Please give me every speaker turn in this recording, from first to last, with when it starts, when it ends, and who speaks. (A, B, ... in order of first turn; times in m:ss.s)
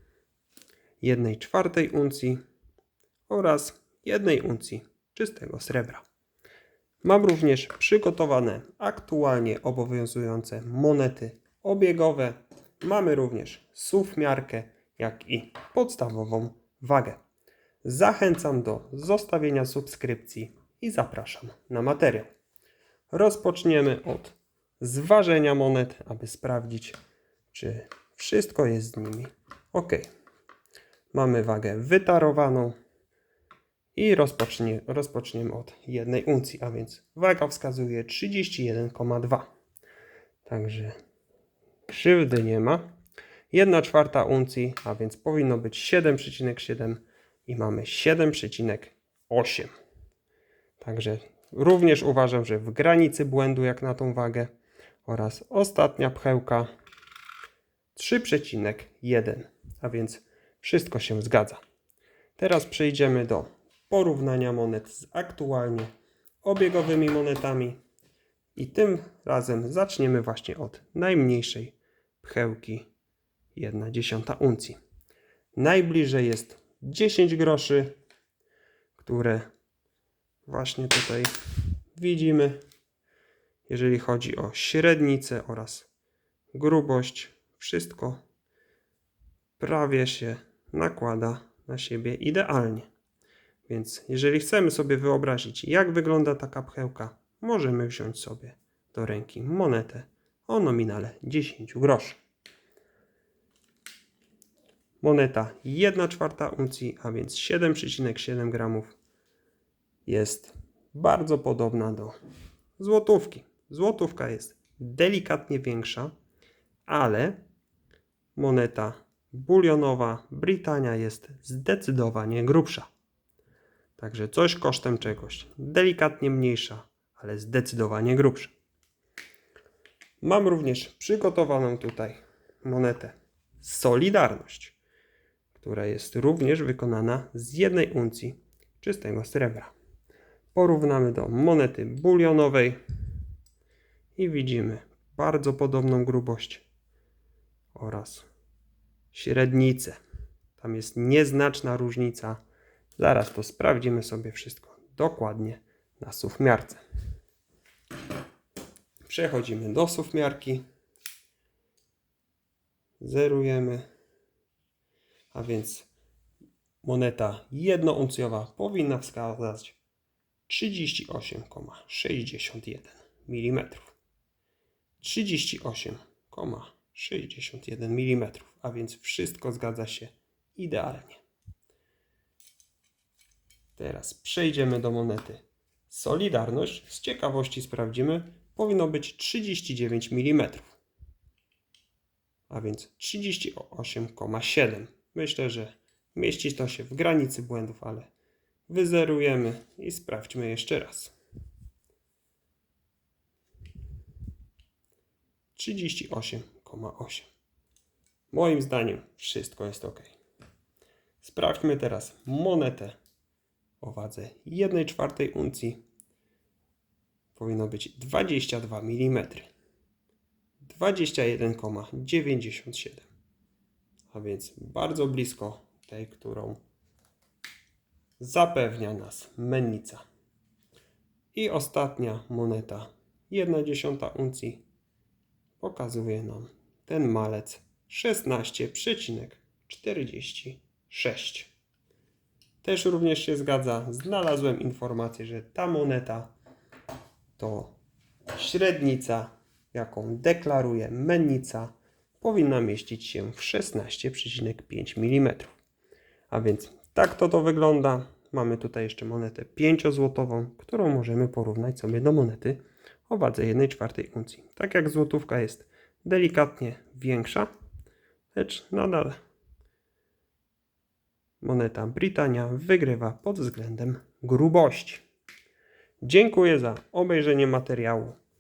0:01.0-0:02.4 A
0:03.3-0:06.0 A
0:07.0-0:17.2 A
0:17.8-0:22.3 A
0:23.1-0:27.0 A
0:27.5-0:30.1 A
0:31.1-0:32.8 A
0:34.0-0:39.5 A
0:40.5-0:41.0 A
0:41.9-0:42.9 A
0:43.5-0:49.7 A
0:50.8-0:54.5 A
0:55.0-0:56.7 A
0:58.0-1:01.6 A
1:02.4-1:05.9 A
1:06.4-1:07.8 A
1:08.6-1:12.9 A
1:13.6-1:14.8 A
1:15.6-1:18.0 A
1:19.0-1:19.5 A
1:20.5-1:21.3 A
1:22.0-1:22.6 A
1:23.7-1:25.9 A
1:26.5-1:28.2 A
1:29.6-1:32.9 A
1:33.7-1:42.2 A
1:45.0-1:49.0 A
1:50.1-1:52.2 A
1:52.8-1:56.1 A
1:56.9-1:57.4 A
1:58.4-2:02.9 A
2:04.0-2:08.5 A
2:10.2-2:14.8 A
2:15.6-2:19.7 A
2:20.5-2:22.8 A
2:24.2-2:26.6 A
2:27.8-2:28.3 A
2:29.1-2:30.0 A
2:30.6-2:32.4 A
2:33.0-2:36.8 A
2:39.0-2:40.6 A
2:43.0-2:43.8 A
2:45.3-2:45.9 A
2:46.8-2:49.8 A
2:50.5-2:53.9 A
2:55.0-3:01.2 A
3:03.8-3:10.8 A
3:12.5-3:18.1 A
3:18.7-3:21.1 A
3:25.6-3:27.3 A
3:28.3-3:30.1 A
3:31.2-3:33.0 A
3:33.8-3:35.8 A
3:37.4-3:39.5 A
3:40.6-3:43.1 A
3:44.1-3:46.6 A
3:48.2-3:50.0 A
3:51.3-3:54.6 A
3:55.6-4:01.5 A
4:02.6-4:06.3 A
4:07.4-4:07.8 A
4:08.3-4:15.6 A
4:16.3-4:27.5 A
4:28.3-4:29.2 A
4:31.4-4:35.0 A
4:36.0-4:38.2 A